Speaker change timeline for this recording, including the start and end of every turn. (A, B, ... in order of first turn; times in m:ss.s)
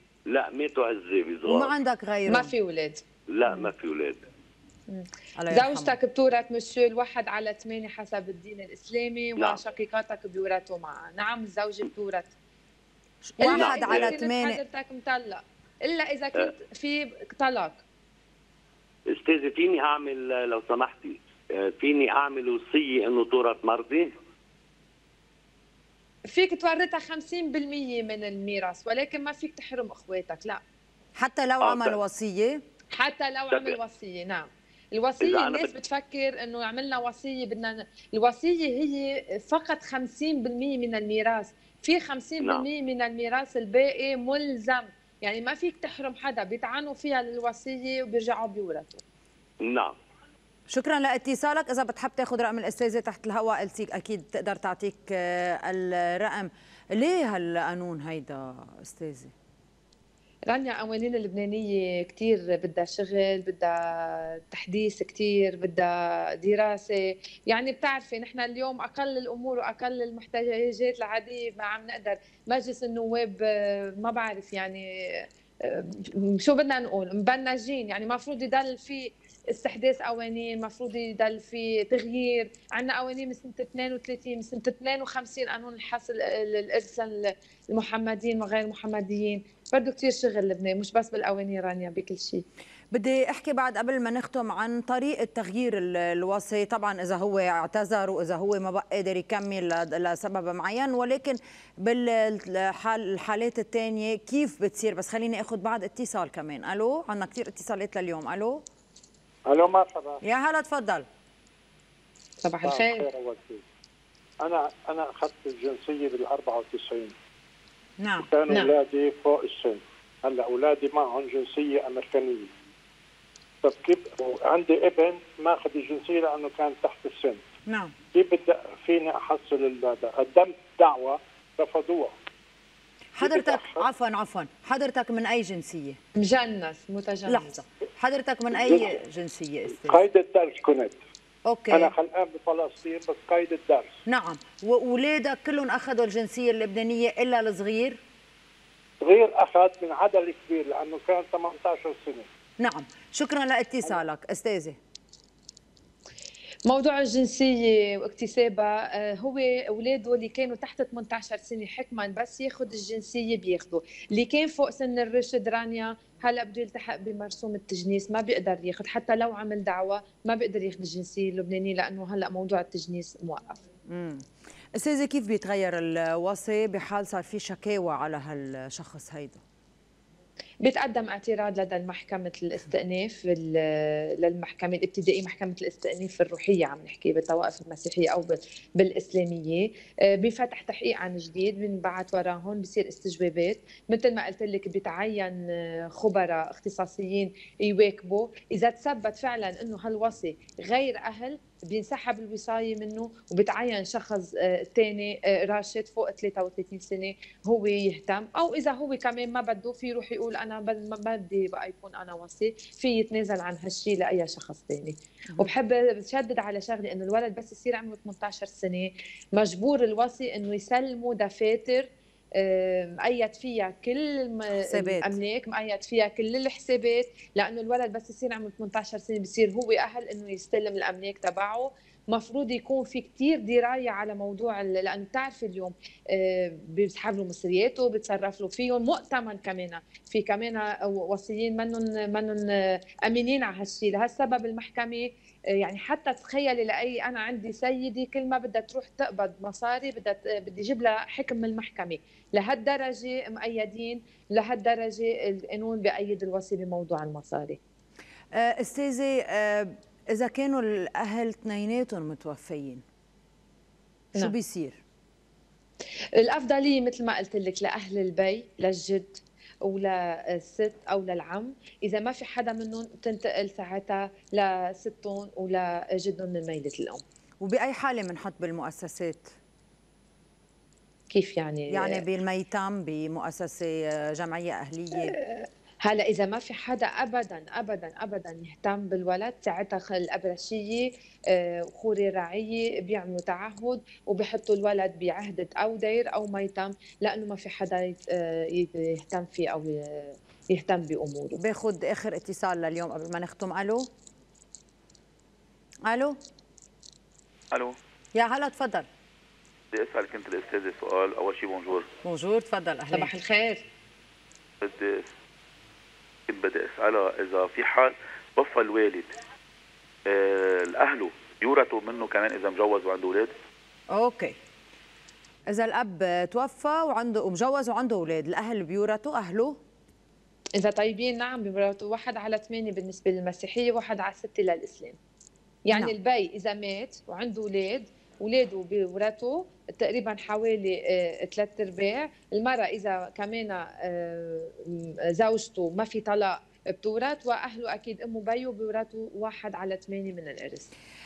0:00.3-0:01.8 A
0:01.4-0:02.5 B
0:02.3-0:03.7 C
0:03.3-0:04.2 A
0:04.9-0:12.3 C
0:05.4-0:06.0 B
0:13.2-0:14.6 B
0:13.4-0:17.8 C
0:13.4-0:14.2 A
0:19.1-0:24.1 A
0:26.3-0:30.6 C
0:31.2-0:32.6 B
0:31.6-0:32.0 A
0:32.9-0:49.0 C
0:33.5-0:33.8 A
0:35.2-0:35.7 A
0:42.4-0:42.7 A
0:49.6-0:50.0 A
0:50.7-0:59.3 B
1:00.5-1:32.4 C
1:32.9-1:48.6 B
1:49.5-1:50.2 D
1:50.2-1:51.0 B
1:52.4-1:53.1 C
1:52.6-1:53.6 D
1:54.4-1:57.1 D
1:58.0-1:58.3 B
1:58.2-2:02.5 D
2:03.6-2:07.4 D
2:07.7-2:07.9 B
2:08.1-2:12.1 D
2:13.2-2:16.0 B
2:13.2-2:13.8 D
2:16.2-2:17.5 C
2:17.3-2:20.0 B
2:18.5-2:19.0 D
2:19.7-2:21.0 D
2:21.4-2:21.9 B
2:21.7-2:24.0 D
2:24.1-2:28.0 B
2:29.0-2:32.2 D
2:32.6-2:34.8 B
2:36.6-2:53.6 C
2:53.9-2:59.4 B
3:00.6-3:15.4 C
3:15.9-4:17.6 C
3:44.7-3:45.2 B
4:18.3-4:22.8 B
4:24.2-4:24.8 B
4:26.2-4:37.0 C
4:37.4-4:39.3 B
4:41.1-4:42.0 C
4:41.7-4:45.1 B
4:45.1-5:01.4 C
5:01.4-5:03.9 B
5:05.8-5:06.2 B
5:08.1-5:08.9 B
5:09.7-5:11.9 E
5:12.0-5:13.1 B
5:12.9-5:13.6 C
5:14.6-5:15.1 E
5:16.3-5:19.1 E
5:20.1-5:23.3 E
5:23.9-5:24.4 B
5:25.5-5:29.6 B
5:30.6-5:35.0 C
5:35.7-5:50.7 C